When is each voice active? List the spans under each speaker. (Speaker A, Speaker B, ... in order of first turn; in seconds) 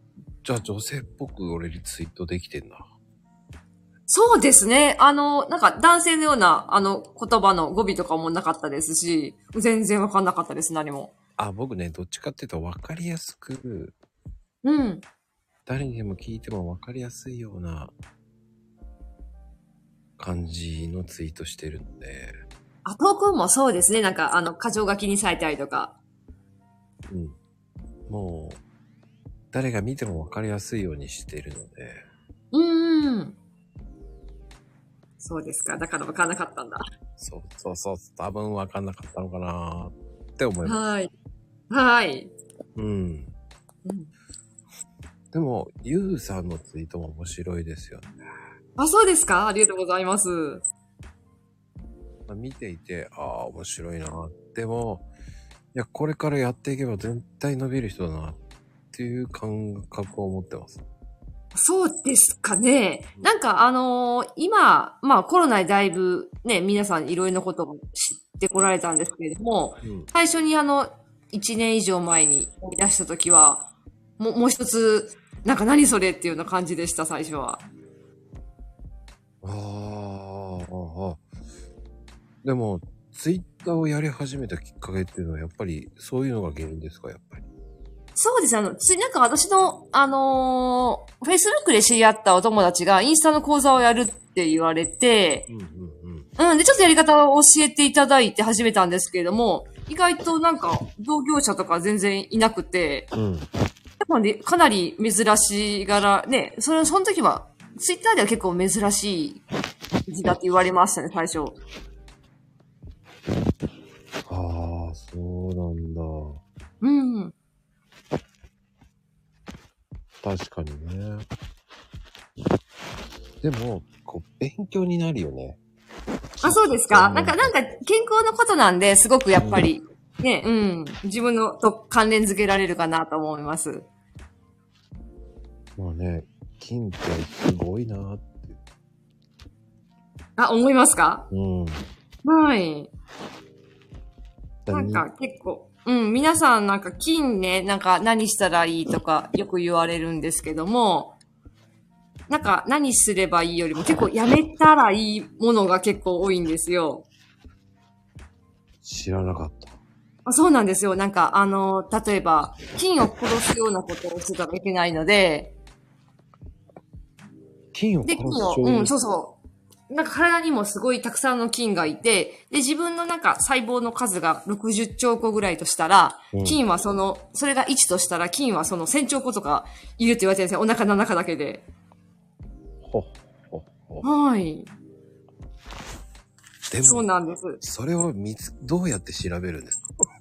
Speaker A: 0.4-2.8, 11.4-13.9, 15.7-17.9, 20.2-22.4, 27.1-27.4, 28.1-28.6, 29.5-32.0, 37.2-40.8, 42.8-43.3, 45.3-48.1, 52.3-55.1, 55.7-58.4, 58.9-60.8, 69.8-70.1, 79.4-81.2, 82.4-87.4, 95.5-96.3, 103.1-103.5, 114.3-116.4, 120.2-121.3, 123.4-125.6, 126.4-127.6, 129.3-129.7, 135.8-138.6, 141.3-141.8, 144.7-145.1, 158.8-159.8, 167.7-168.9, 176.3-176.6, 182.8-184.1, 186.7-187.1, 187.6-189.9
Speaker B: 4.1-11.1, 14.6-15.0, 22.9-25.9, 32.5-33.4, 35.2-36.8, 40.6-41.1, 41.7-42.3, 43.9-44.1, 48.8-50.6, 61.5-73.7, 74.2-77.7, 88.2-95.5, 96.4-103.1, 104.0-109.4, 110.1-111.6, 116.8-117.3, 126.4-133.9, 140.4-141.3, 142.2-142.9, 144.7-151.2, 152.3-157.1, 160.2-165.6, 168.0-169.4, 169.9-181.7, 184.0-184.7, 186.8-187.6